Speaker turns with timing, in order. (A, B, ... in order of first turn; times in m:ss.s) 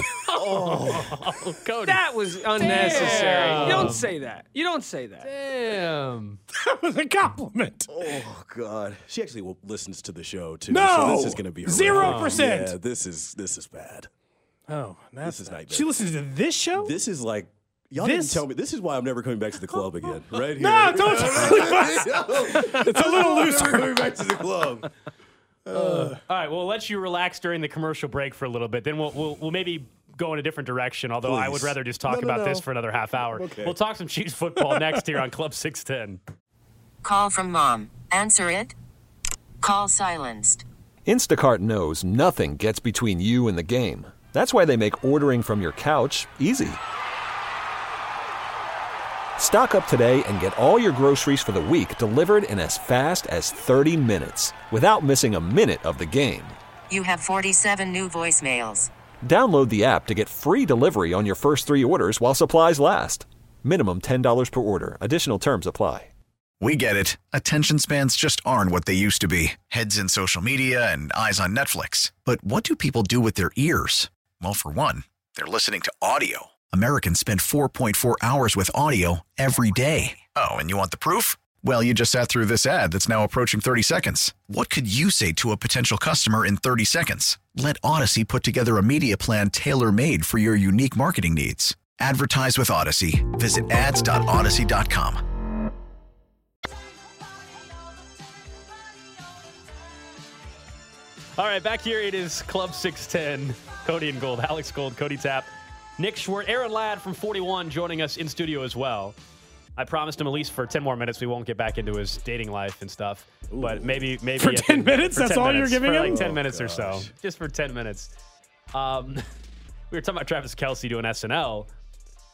0:00.3-0:04.1 A
0:00.3-0:01.4 B
0:01.8-0:05.3 C
0:02.7-0:04.0 B
0:05.2-0:06.4 A
0:06.5-0:07.9 D
0:07.9-0:14.1 B
0:10.7-0:12.7 D
0:11.9-0:12.4 A
0:14.7-0:16.9 D
0:15.2-0:15.9 B
0:16.8-0:24.9 B
0:18.0-0:18.4 D
0:20.6-0:24.2 D
0:25.7-0:26.2 B
0:25.7-0:26.2 D
0:26.2-0:36.2 A
0:31.2-0:33.8 B
0:37.0-0:38.7 E
0:39.6-0:40.6 E
0:41.1-0:46.8 F
0:49.4-0:56.6 F
0:56.9-0:58.9 E
0:59.2-1:06.1 F
1:06.6-1:35.2 G
1:41.4-1:49.2 A
1:49.8-1:58.1 A
1:53.5-1:54.0 B
1:54.4-1:56.2 D
1:55.9-1:57.1 B
1:58.7-1:59.2 A
1:59.9-2:01.7 A